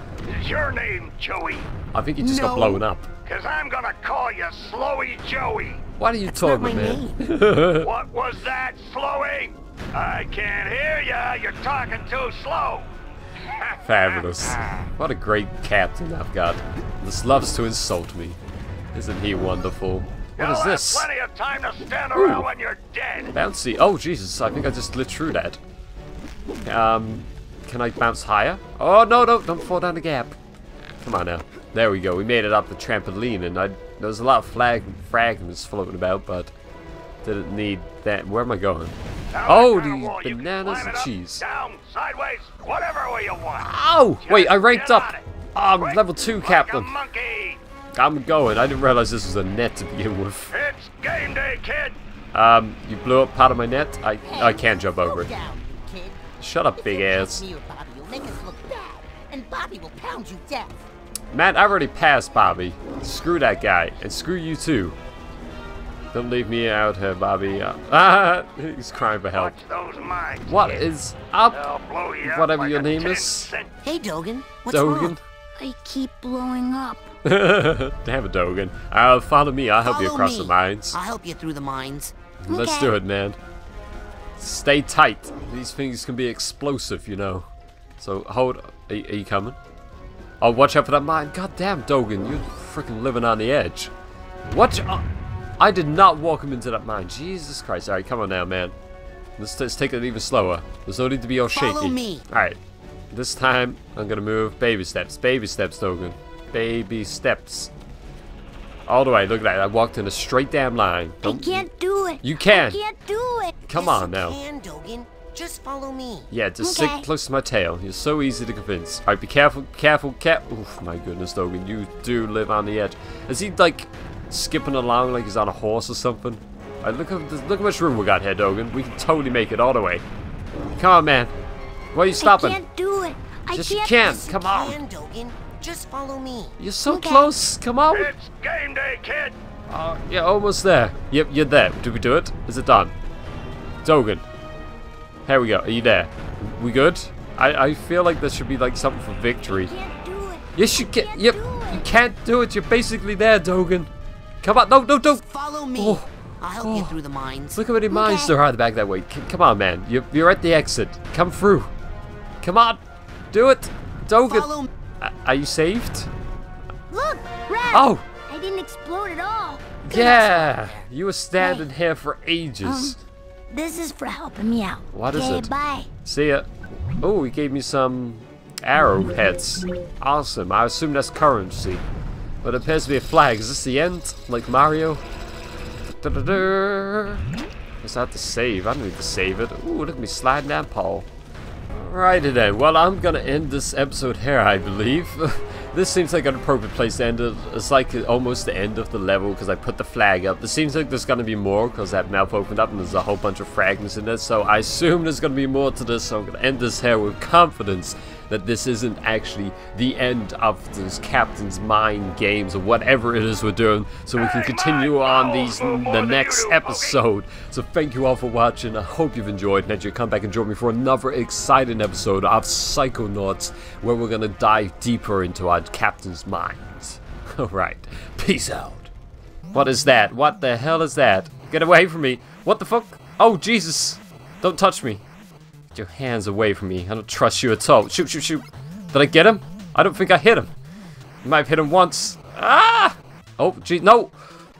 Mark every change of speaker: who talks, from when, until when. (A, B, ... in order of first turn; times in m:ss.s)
0:00.2-0:01.7 A
0:01.9-0:03.1 B
0:02.2-0:02.8 C
0:03.2-0:05.8 A
0:06.0-0:07.9 B
0:06.3-0:07.2 C
0:07.8-0:12.9 A
0:13.5-0:14.9 A
0:13.8-0:18.4 B
0:18.9-0:21.1 B
0:20.4-0:23.4 A
0:22.1-0:22.5 B
0:23.3-0:25.6 B
0:26.6-0:30.4 B
0:31.0-0:36.5 B
0:37.2-0:41.4 B
0:39.3-0:43.7 A
0:43.6-0:47.0 B
0:44.2-0:47.6 A
0:48.0-0:50.5 B
0:50.5-0:52.0 A
0:52.3-0:55.3 B
0:54.2-0:56.2 C
0:56.4-0:57.4 B
0:56.8-1:00.8 C
1:01.3-1:05.0 B
1:06.1-1:09.6 B
1:09.3-1:10.9 A
1:10.5-1:11.7 B
1:11.5-1:13.7 A
1:12.2-1:13.5 B
1:13.8-1:15.2 C
1:14.7-1:15.2 B
1:15.6-1:17.1 D
1:17.2-1:21.0 B
1:19.8-1:22.2 C
1:22.4-1:23.4 B
1:22.5-1:23.0 D
1:24.4-1:27.5 B
1:28.0-1:29.6 B
1:30.4-1:33.9 B
1:34.4-1:35.1 B
1:35.6-1:38.8 B
1:39.4-1:42.6 B
1:41.5-1:42.3 C
1:43.1-1:47.7 B
1:48.9-1:51.7 B
1:51.2-1:53.5 D
1:52.2-1:52.8 B
1:53.6-1:54.4 B
1:53.7-1:56.3 C
1:56.3-2:10.0 B
1:56.6-1:57.1 D
2:10.8-2:11.3 B
2:11.9-2:12.6 B
2:12.2-2:14.0 D
2:13.5-2:14.8 B
2:13.9-2:16.6 C
2:16.6-2:18.1 B
2:16.9-2:17.3 D
2:17.9-2:19.4 A
2:19.7-2:22.9 B
2:23.8-2:24.2 B
2:25.3-2:29.7 B
2:29.4-2:31.9 D
2:30.6-2:33.9 B
2:34.4-2:35.2 B
2:35.1-2:37.6 C
2:35.8-2:37.0 B
2:37.5-2:41.7 B
2:37.9-2:38.4 D
2:42.4-2:42.8 B
2:43.3-2:46.1 B
2:44.2-2:44.7 C
2:46.9-2:50.3 D
2:47.7-2:48.1 B
2:49.8-2:53.0 B
2:50.1-2:50.9 C
2:51.4-2:51.7 D
2:52.6-2:53.0 D
2:53.5-2:55.9 D
2:54.9-2:55.5 B
2:56.0-3:01.8 B
3:02.4-3:05.0 B
3:05.9-3:07.2 B
3:07.8-3:11.1 B
3:11.7-3:48.9 B
3:34.2-3:37.0 A
3:49.5-3:55.0 B
3:55.7-4:00.5 B
4:01.2-4:04.2 B